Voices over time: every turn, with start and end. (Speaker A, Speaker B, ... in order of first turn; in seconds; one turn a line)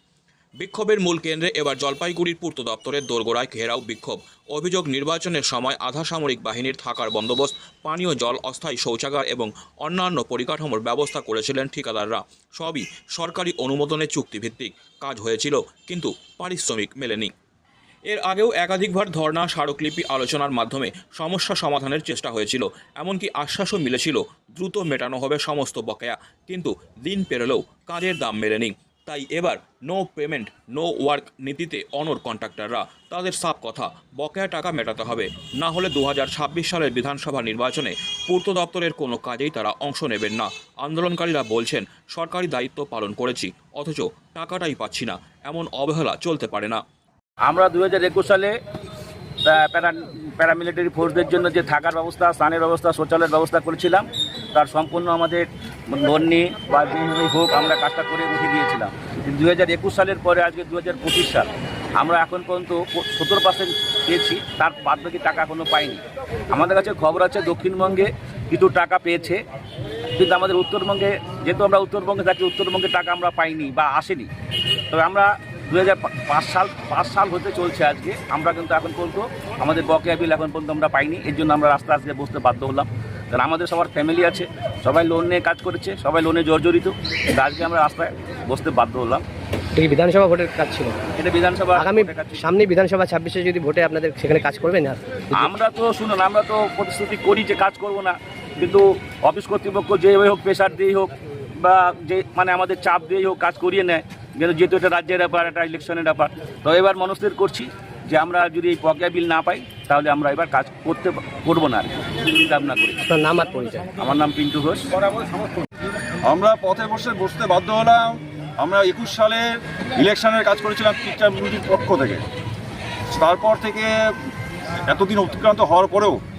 Speaker A: 0.6-17.3
Speaker A: 18.1-46.8
Speaker B: 47.5-48.5
Speaker B: 49.5-69.4
Speaker B: 70.2-74.3
Speaker B: 74.9-89.2
Speaker C: 89.8-91.0
Speaker B: 91.2-92.4
Speaker C: 91.8-95.5
Speaker B: 95.3-113.0
Speaker C: 113.1-113.9
Speaker B: 114.0-114.9
Speaker D: 116.2-119.4
Speaker D: 120.0-122.2
Speaker D: 123.1-123.9
Speaker D: 124.9-126.2